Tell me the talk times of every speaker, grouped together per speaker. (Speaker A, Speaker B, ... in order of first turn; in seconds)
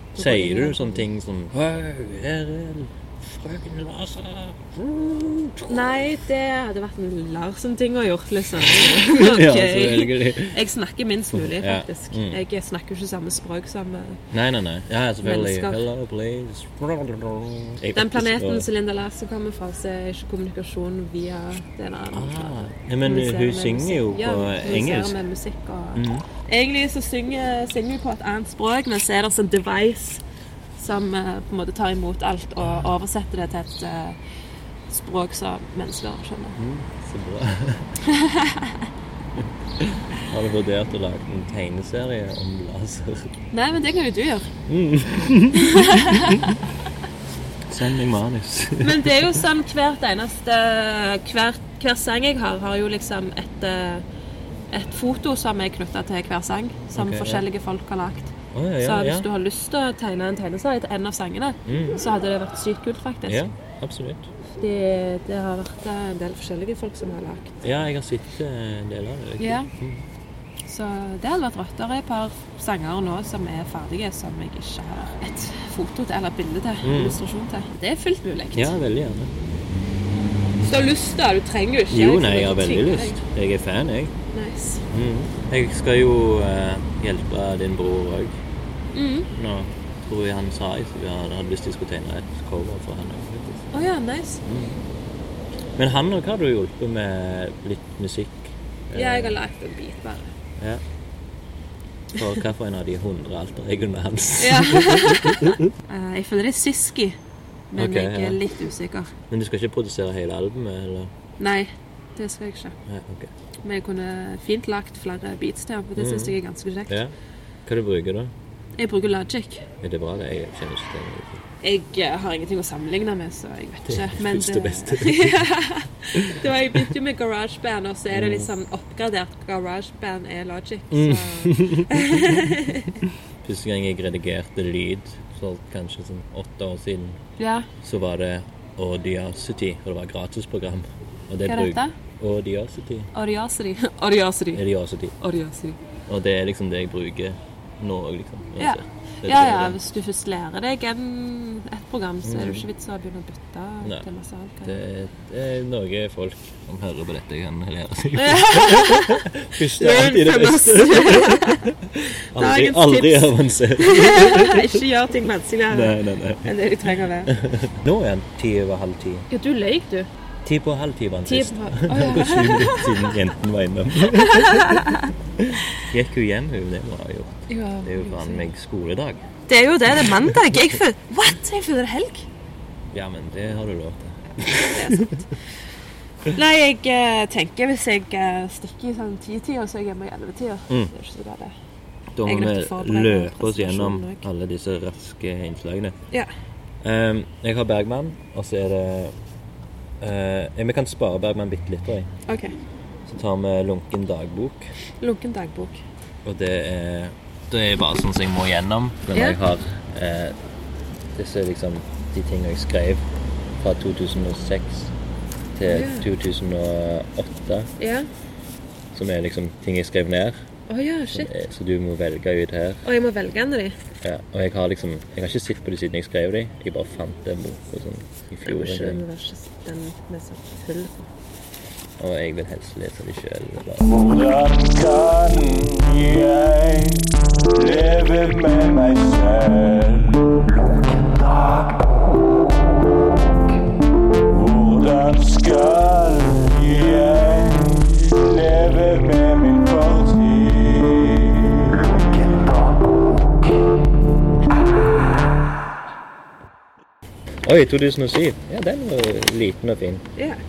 Speaker A: 0.1-1.1, 5.7-14.2, 15.2-15.8, 17.9-30.2, 30.8-34.2, 34.9-36.6, 38.0-38.9, 43.5-44.5, 45.5-46.6, 48.8-54.0, 54.7-63.5, 64.5-67.6, 69.4-69.7, 70.7-78.7, 80.6-83.2, 84.3-84.8, 88.9-89.3, 93.7-94.4, 98.9-100.3, 104.4-107.2, 107.7-109.1, 111.4-112.8, 113.6-117.0, 118.8-119.7, 121.6-133.0, 137.4-137.7, 141.4-141.9, 143.1-144.6, 145.2-145.8, 148.6-154.8, 158.2-161.7, 162.3-167.3, 169.3-170.1, 171.3-173.1, 174.1-175.1, 177.5-178.5, 179.5-182.3, 184.6-185.3, 186.3-191.5, 192.2-194.3, 202.3-202.6, 205.0-205.8, 209.1-209.4, 215.7-216.1, 217.8-218.1, 220.7-221.3, 222.8-223.8, 228.4-231.1
Speaker B: 0.2-5.8, 8.6-10.6, 11.3-12.4, 14.3-18.7, 22.1-25.2, 25.9-26.3, 36.6-38.0, 39.4-43.3, 44.7-46.6, 47.7-49.4, 57.0-57.5, 58.5-59.3, 61.7-62.0, 63.3-64.3, 67.6-70.0, 76.8-77.2, 78.5-79.3, 81.9-84.1, 84.9-88.4, 89.3-93.7, 94.5-94.8, 95.8-99.4, 100.6-100.8, 102.1-105.6, 107.8-108.4, 109.3-111.1, 112.9-113.3, 116.0-116.4, 117.7-118.3, 119.8-121.4, 123.9-125.5, 126.2-126.9, 128.1-128.5, 130.9-132.4, 133.4-137.2, 137.8-143.1, 144.5-145.1, 146.1-149.8, 152.2-152.7, 154.6-164.8, 165.7-166.5, 167.3-169.3, 170.4-174.8, 175.4-179.2, 182.9-185.2, 192.2-196.0, 196.8-199.2, 200.0-202.1, 203.1-204.7, 206.2-210.4, 211.2-213.0, 213.6-214.9, 215.6-217.7, 218.9-220.4, 221.1-222.8, 224.0-229.0, 232.0-233.9, 257.4-260.1
Speaker C: 233.8-241.8, 244.3-252.8